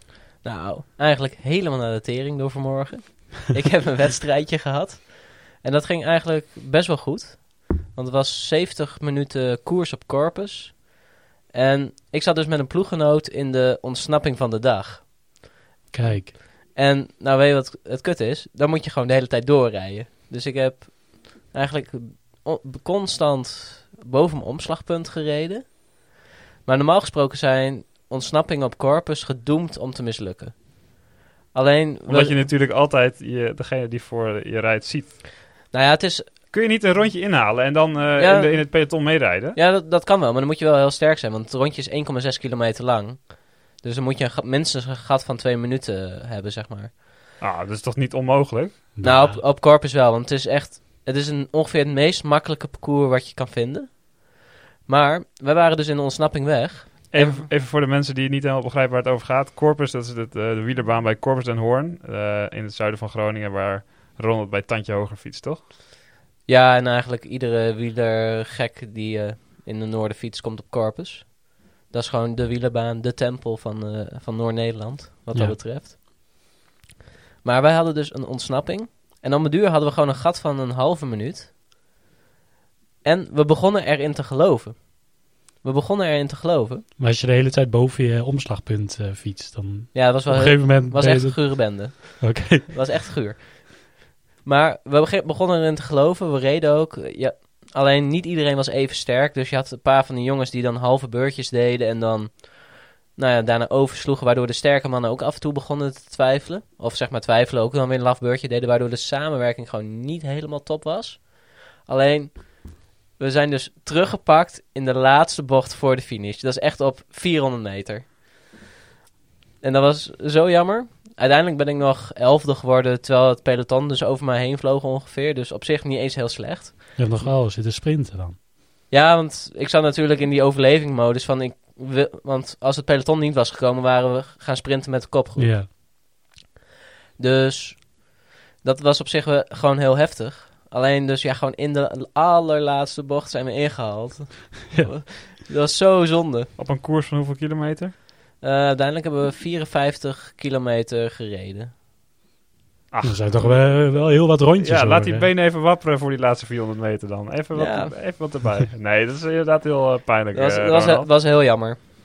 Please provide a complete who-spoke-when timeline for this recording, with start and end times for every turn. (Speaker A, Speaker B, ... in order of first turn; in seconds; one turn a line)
Speaker A: 0.4-10.9
Speaker A: 11.5-15.0
Speaker B: 15.9-16.3
Speaker A: 16.7-26.1
Speaker A: 26.6-31.0
Speaker A: 31.5-32.5
Speaker C: 32.1-35.2
Speaker A: 35.7-36.3
Speaker C: 36.5-39.6
Speaker A: 38.2-39.0
Speaker A: 39.5-47.0
Speaker C: 47.4-48.9
Speaker B: 49.0-49.4
Speaker A: 49.0-54.3
Speaker A: 54.9-57.5
Speaker C: 57.1-65.6
Speaker A: 66.5-76.0
Speaker A: 77.4-81.5
Speaker A: 83.0-86.8
Speaker B: 87.0-92.8
Speaker A: 89.9-118.2
Speaker A: 119.6-127.2
Speaker B: 127.0-128.4
Speaker A: 128.9-135.6
Speaker B: 135.4-135.7
Speaker A: 137.2-146.5
Speaker B: 144.7-145.0
Speaker C: 146.6-147.9
Speaker A: 148.4-151.7
Speaker C: 152.9-161.1
Speaker B: 153.0-155.3
Speaker A: 157.5-157.9
Speaker A: 160.3-161.8